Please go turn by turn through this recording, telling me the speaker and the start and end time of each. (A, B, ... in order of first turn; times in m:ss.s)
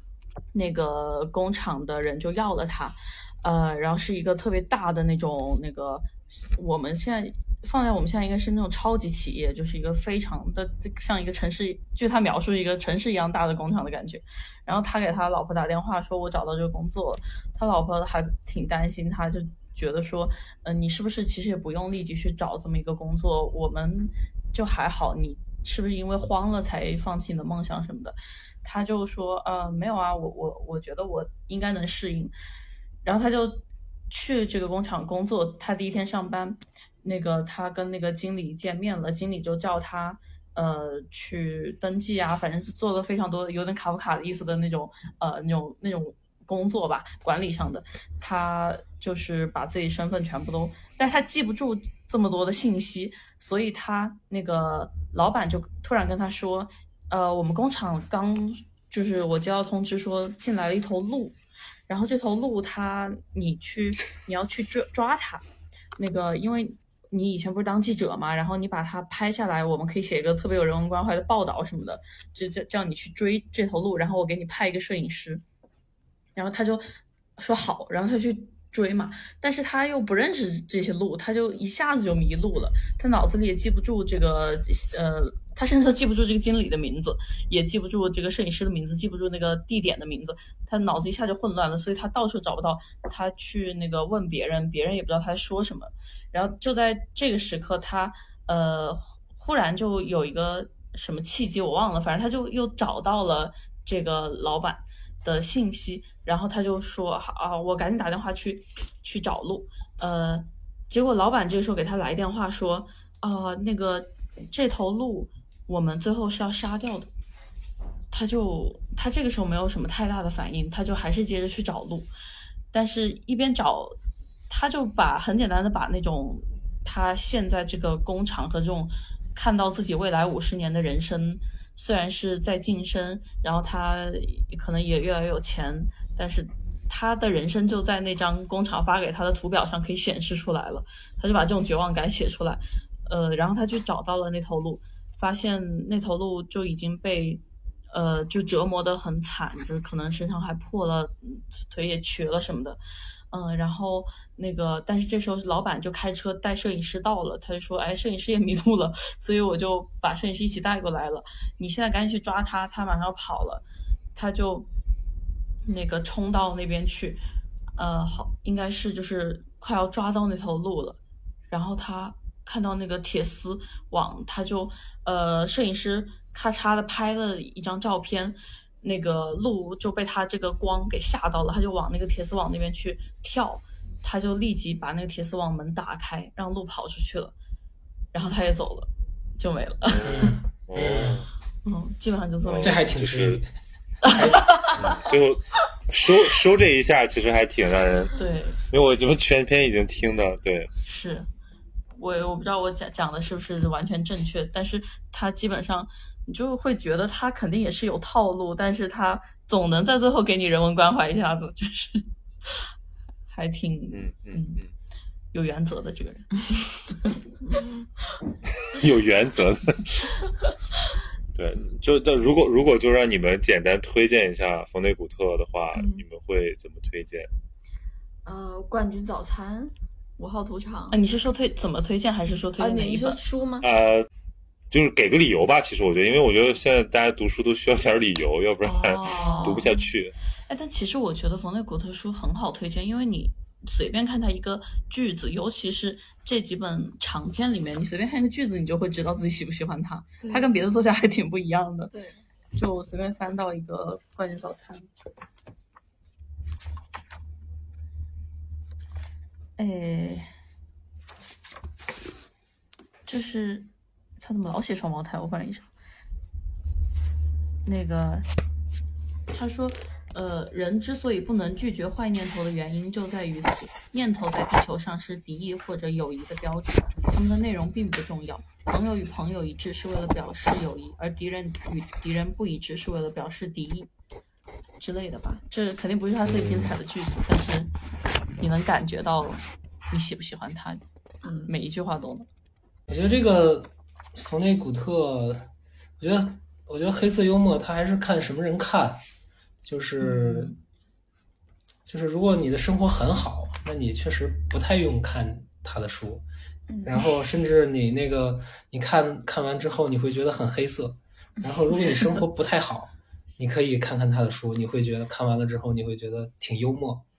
0:00.5-0:32.3 A
0:33.0-1:05.4 A
1:06.0-1:15.4 A
1:16.4-1:16.8 A
1:17.4-1:57.1 A
1:58.1-2:02.1 A
2:02.7-2:04.0 A
2:04.5-2:32.8 A
2:33.3-2:43.6 A
2:44.2-2:44.7 A
2:45.7-2:47.2 A
2:47.8-3:07.3 A
3:08.1-3:10.4 A
3:09.9-3:11.3 B
3:10.0-3:11.2 C
3:11.6-3:12.9 A
3:12.4-3:13.4 B
3:12.6-3:13.5 C
3:14.0-3:14.7 C
3:14.0-3:14.8 A
3:14.7-3:20.7 B
3:18.2-3:18.6 A
3:20.8-3:21.3 A
3:22.0-3:32.1 A
3:33.3-3:34.6 A
3:33.9-3:34.7 B
3:35.3-3:36.4 A
3:37.4-3:37.9 D
3:38.6-3:40.2 B
3:41.4-3:47.3 B
3:45.8-3:46.0 D
3:48.2-3:51.0 D
3:50.9-3:53.2 A
3:52.6-3:53.7 D
3:53.6-3:54.1 B
3:54.7-4:00.1 B
3:58.7-3:59.8 D
3:59.0-3:59.7 A
4:00.5-4:11.9 A
4:10.2-4:10.5 D
4:11.9-4:12.2 D
4:12.5-4:14.9 A
4:19.6-4:20.3 A
4:23.1-4:23.7 A
4:24.2-4:25.7 A
4:27.6-4:28.3 A
4:29.3-4:43.9 A
4:44.8-4:47.7 A
4:48.4-4:50.8 A
4:51.2-4:51.5 D
4:51.4-4:52.3 A
4:52.9-4:55.5 C
4:56.0-4:59.0 C
4:59.6-5:00.5 C
5:00.0-5:00.6 A
5:01.9-5:06.2 C
5:06.7-5:07.1 D
5:06.8-5:17.0 C
5:11.4-5:12.0 D